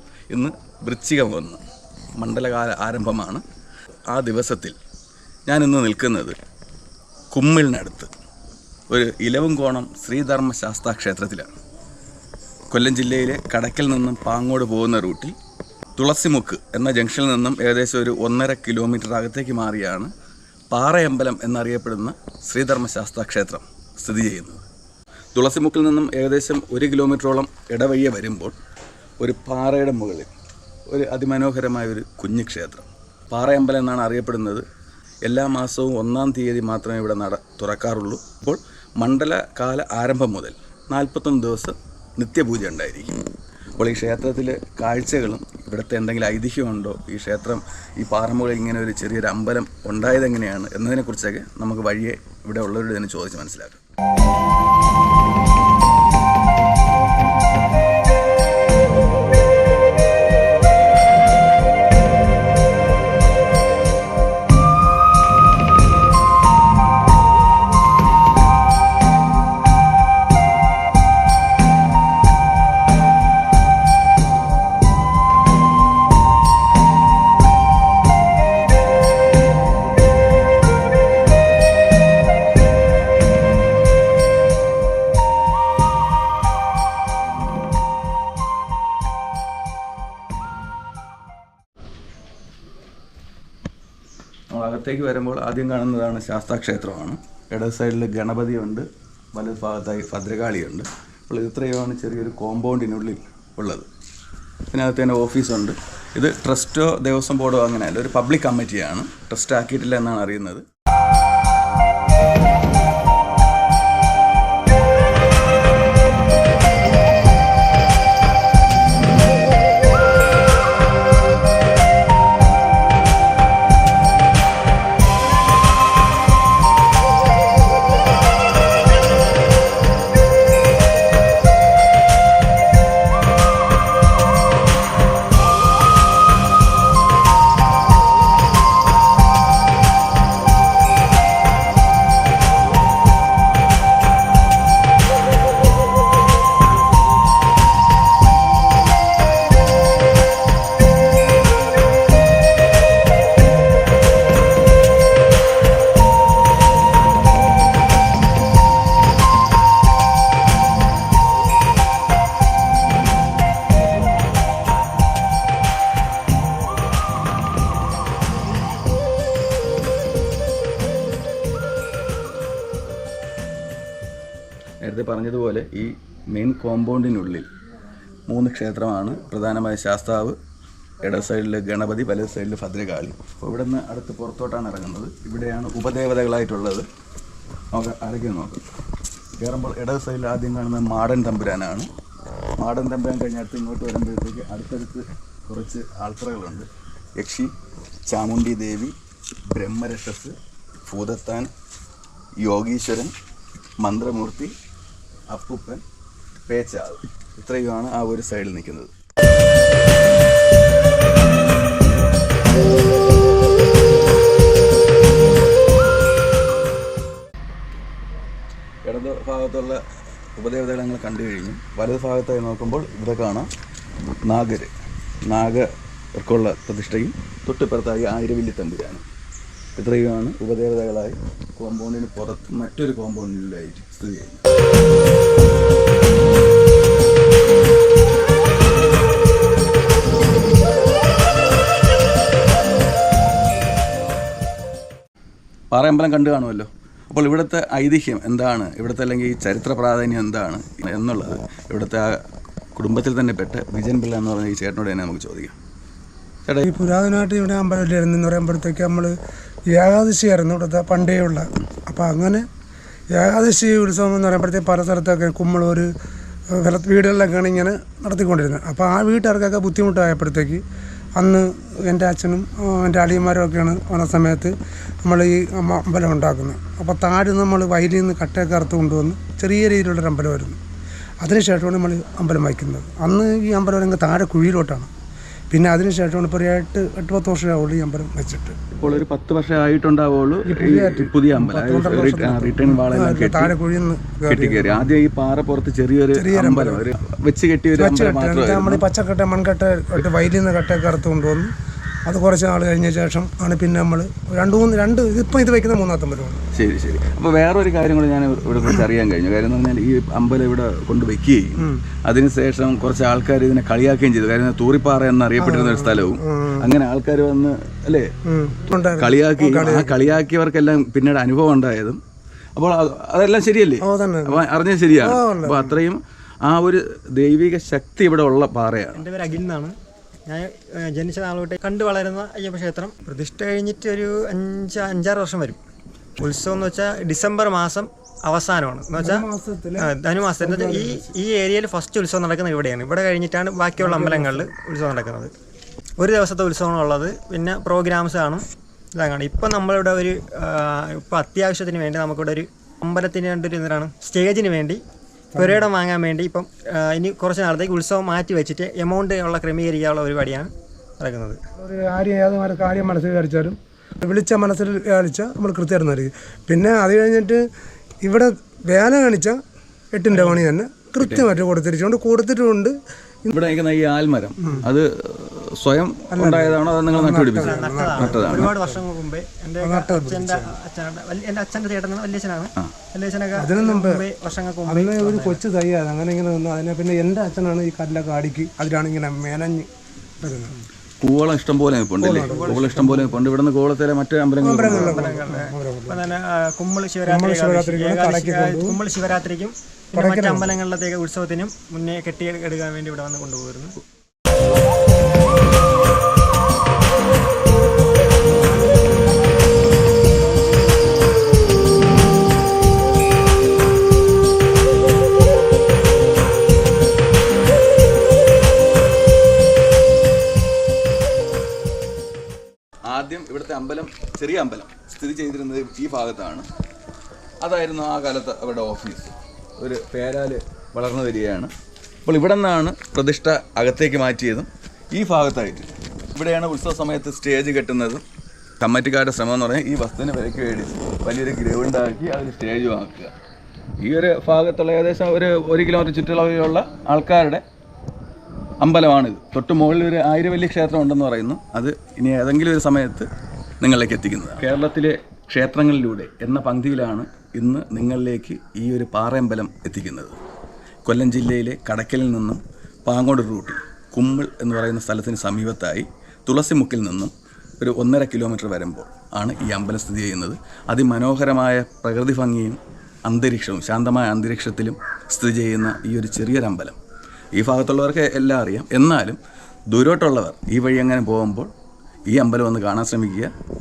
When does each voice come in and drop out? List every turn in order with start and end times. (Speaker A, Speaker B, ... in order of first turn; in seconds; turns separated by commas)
Speaker A: 0.3-1.6, Speaker A: 2.1-3.4, Speaker A: 4.1-4.8, Speaker A: 5.5-6.4, Speaker A: 7.3-8.1, Speaker A: 8.9-11.5, Speaker A: 12.7-15.3, Speaker A: 16.0-20.1, Speaker A: 20.7-24.6, Speaker A: 25.3-28.5, Speaker A: 29.2-30.3, Speaker A: 30.9-34.6, Speaker A: 35.2-43.1, Speaker A: 43.8-53.8, Speaker A: 94.5-103.9, Speaker A: 104.7-110.6, Speaker A: 174.8-177.5, Speaker A: 178.3-180.4, Speaker A: 181.0-186.8, Speaker A: 187.7-188.6, Speaker A: 189.4-191.9, Speaker A: 192.6-197.5, Speaker A: 198.1-198.9, Speaker A: 199.5-201.5, Speaker A: 202.4-203.1, Speaker A: 203.8-204.5, Speaker A: 205.3-205.8, Speaker A: 206.5-208.9, Speaker A: 218.8-219.8, Speaker A: 220.4-223.5, Speaker A: 224.3-224.7, Speaker A: 225.3-229.0, Speaker A: 229.8-234.4, Speaker A: 245.7-252.2, Speaker A: 252.8-255.5, Speaker A: 256.4-256.7, Speaker B: 256.6-259.1, Speaker B: 259.7-262.4, Speaker B: 263.1-265.9, Speaker B: 266.5-270.6, Speaker B: 271.2-280.6, Speaker B: 281.2-284.9, Speaker B: 285.5-288.6, Speaker A: 288.8-293.5, Speaker B: 290.4-294.9, Speaker A: 294.3-298.8, Speaker B: 296.1-296.9, Speaker B: 297.7-301.5, Speaker B: 302.1-306.4, Speaker A: 306.5-318.1, Speaker B: 315.4-316.7, Speaker B: 318.3-320.2, Speaker A: 318.9-322.0, Speaker A: 322.6-329.0, Speaker B: 323.8-324.4, Speaker B: 325.0-325.8, Speaker C: 328.9-329.7, Speaker C: 330.2-335.6, Speaker C: 336.2-339.2, Speaker B: 339.0-341.0, Speaker C: 339.8-345.3, Speaker B: 343.8-344.5, Speaker C: 346.0-348.4, Speaker C: 348.9-354.8, Speaker B: 355.3-355.7, Speaker C: 355.3-361.4, Speaker B: 361.6-367.4, Speaker B: 368.0-369.4, Speaker B: 369.9-372.7, Speaker C: 370.1-370.4, Speaker A: 371.0-371.3, Speaker A: 373.3-378.5, Speaker B: 374.4-374.7, Speaker B: 376.1-378.8, Speaker C: 377.4-385.4, Speaker B: 379.6-380.5, Speaker B: 383.4-384.0, Speaker B: 384.7-389.7, Speaker B: 390.2-390.5, Speaker A: 391.0-395.1, Speaker B: 392.0-393.2, Speaker C: 392.2-392.7, Speaker B: 394.4-396.0, Speaker C: 394.7-403.8, Speaker B: 397.1-398.8, Speaker B: 399.9-400.5, Speaker A: 422.9-426.5, Speaker A: 427.4-431.5, Speaker A: 432.1-438.0, Speaker A: 438.6-443.1, Speaker A: 443.8-447.4, Speaker A: 448.6-453.1, Speaker A: 453.6-460.2, Speaker A: 460.9-476.8, Speaker A: 477.3-479.2, Speaker A: 479.7-481.5, Speaker A: 482.1-483.3